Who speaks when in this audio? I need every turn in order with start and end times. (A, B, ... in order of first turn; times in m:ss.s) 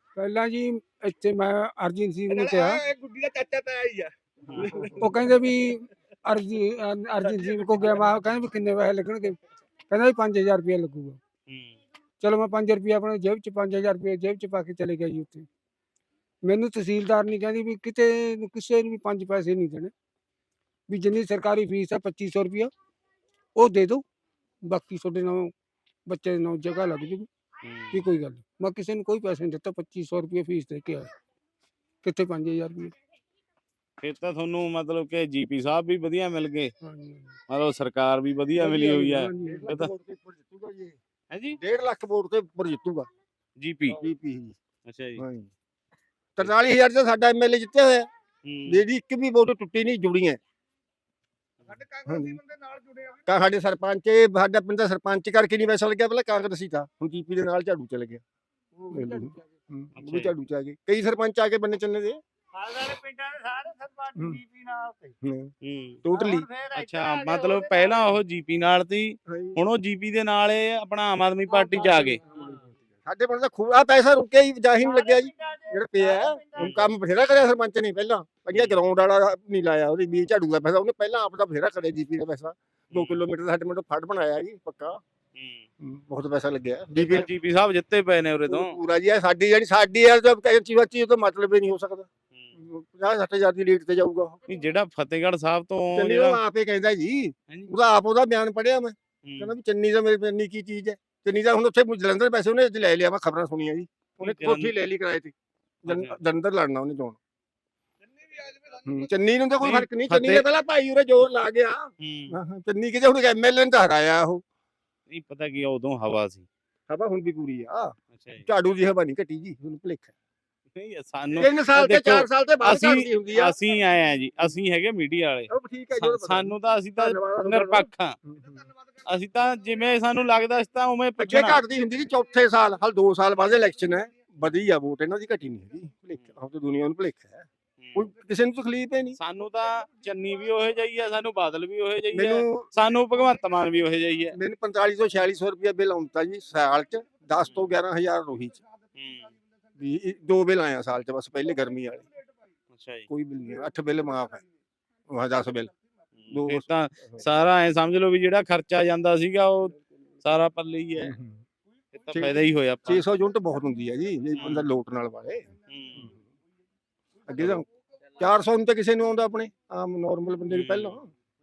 0:00.2-0:02.8 A
0:02.3-0:05.4 B
0:04.5-0:04.9 C
0:04.8-0:09.4 A
0:07.2-0:08.1 B
0:09.9-0:11.2 A
0:11.5-0:11.8 C
0:12.2-0:15.5 A
0:16.4-0:19.9 A
0:20.9-0:22.7 A
0:23.6-0:24.0 A
0:24.6-0:25.5 A
0:26.1-0:27.3 A
0:27.6-0:28.0 C
0:27.9-0:31.1 A
0:32.0-0:32.9 A
0:34.0-0:36.7 C
0:36.8-0:37.4 A
0:37.5-0:39.9 C
0:38.6-0:39.7 A
0:39.4-0:41.0 D
0:41.3-0:41.6 C
0:41.6-0:43.1 D
0:43.6-0:44.0 C
0:43.9-0:44.6 D
0:44.9-0:45.2 C
0:45.2-0:45.5 D
0:46.4-0:48.1 D
0:48.4-0:48.8 C
0:48.7-0:50.4 D
0:51.7-0:53.3 B
0:52.1-0:52.4 D
0:53.3-0:58.2 D
0:58.8-0:59.5 A
0:58.9-1:02.2 D
1:00.0-1:00.3 C
1:02.6-1:05.0 E
1:02.7-1:04.6 C
1:04.2-1:04.4 D
1:05.2-1:05.5 D
1:05.6-1:12.2 C
1:06.0-1:06.5 D
1:06.3-1:08.0 E
1:09.3-1:09.6 D
1:13.0-1:25.0 D
1:14.8-1:16.5 E
1:16.6-1:16.9 C
1:18.5-1:18.8 C
1:22.9-1:23.2 C
1:25.4-1:25.7 C
1:25.8-1:27.3 D
1:26.9-1:28.8 C
1:28.5-1:34.4 D
1:34.5-1:36.4 C
1:35.9-1:45.3 D
1:39.2-1:39.5 C
1:44.2-1:44.7 C
1:45.8-1:46.2 C
1:45.8-1:47.2 D
1:48.1-1:49.1 B
1:48.9-1:54.4 D
1:49.6-1:50.4 C
1:52.0-1:52.4 C
1:55.1-1:56.5 C
1:56.9-2:00.1 D
1:58.1-1:58.5 C
2:00.8-2:08.2 C
2:01.4-2:03.6 D
2:05.5-2:08.6 D
2:08.4-2:09.0 B
2:09.0-2:11.6 C
2:11.2-2:19.2 D
2:17.8-2:18.1 C
2:19.2-2:24.4 C
2:22.1-2:22.7 D
2:24.3-2:28.6 D
2:27.5-2:27.8 C
2:29.0-2:29.3 C
2:29.8-2:32.1 D
2:32.7-2:33.1 C
2:33.1-2:34.4 D
2:35.1-2:35.7 D
2:36.2-2:41.1 C
2:36.3-2:37.2 D
2:41.0-2:41.4 D
2:41.9-2:43.0 C
2:42.1-2:45.5 D
2:44.4-2:44.7 C
2:45.7-2:46.1 C
2:47.3-2:47.7 D
2:48.2-2:51.1 D
2:50.5-2:51.0 C